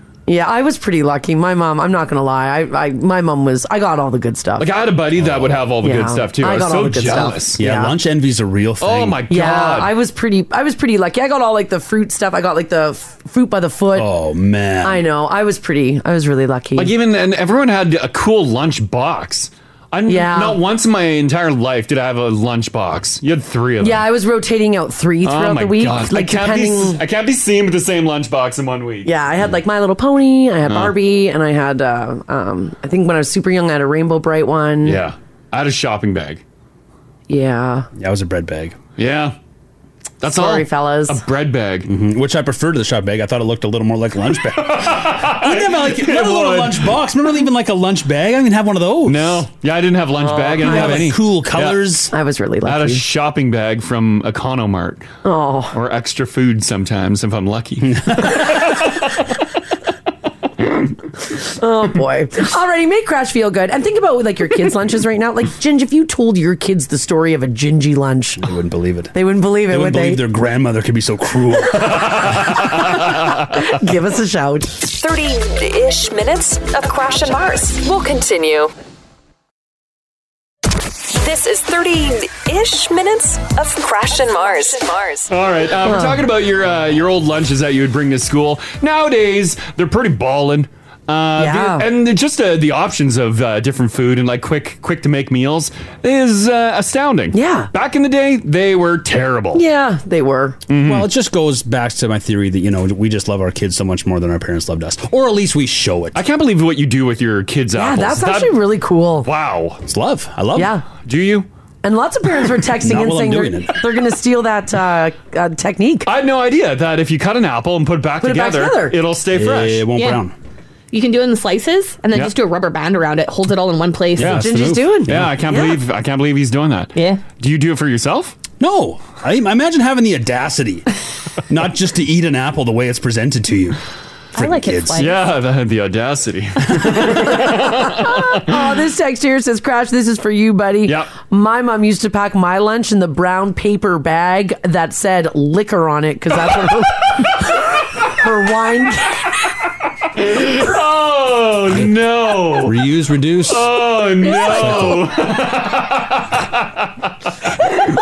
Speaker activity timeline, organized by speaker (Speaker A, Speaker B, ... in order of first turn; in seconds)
Speaker A: 0.3-4.7, 5.8-7.9, 9.3-14.1, 14.8-16.9, 20.1-20.6, 23.8-27.0, 29.0-35.0, 37.3-37.9, 40.3-41.2, 50.2-51.0, 52.1-53.0, 55.2-55.8, 61.3-68.5, 69.1-70.2, 72.8-74.8, 85.8-86.2, 91.4-91.8, 97.3-97.7, 99.5-100.6, 107.7-109.3, 110.5-110.8, 111.8-116.1, 118.2-119.0, 124.2-125.8, 136.9-149.5, 154.3-154.9
Speaker B: 4.6-7.6, 8.8-9.9, 16.8-24.1, 25.2-29.1, 30.6-30.9, 34.8-36.4, 39.0-39.3, 40.2-41.9, 44.5-47.0, 49.0-51.8, 52.6-55.1, 55.7-59.2, 72.0-72.7, 85.3-99.6, 100.7-101.1, 106.1-108.6, 109.2-109.8, 111.0-111.5, 116.0-119.8, 125.1-128.4, 134.9-138.4, 140.8-141.1, 150.1-152.8, 153.5-157.1
Speaker C: 5.2-5.6, 7.5-9.2, 13.9-15.0, 38.0-38.8, 41.9-49.4, 50.6-52.1, 57.8-58.6, 68.4-69.1, 69.7-72.5, 100.8-106.2, 109.8-110.8, 112.8-113.8, 119.3-120.3, 124.2-125.3, 128.6-130.9, 131.5-133.8, 134.3-135.1, 152.6-153.7, 154.2-155.2
Speaker D: 74.8-78.7, 81.1-85.3
Speaker E: 119.9-120.2, 120.9-124.5, 126.9-127.2, 134.3-135.3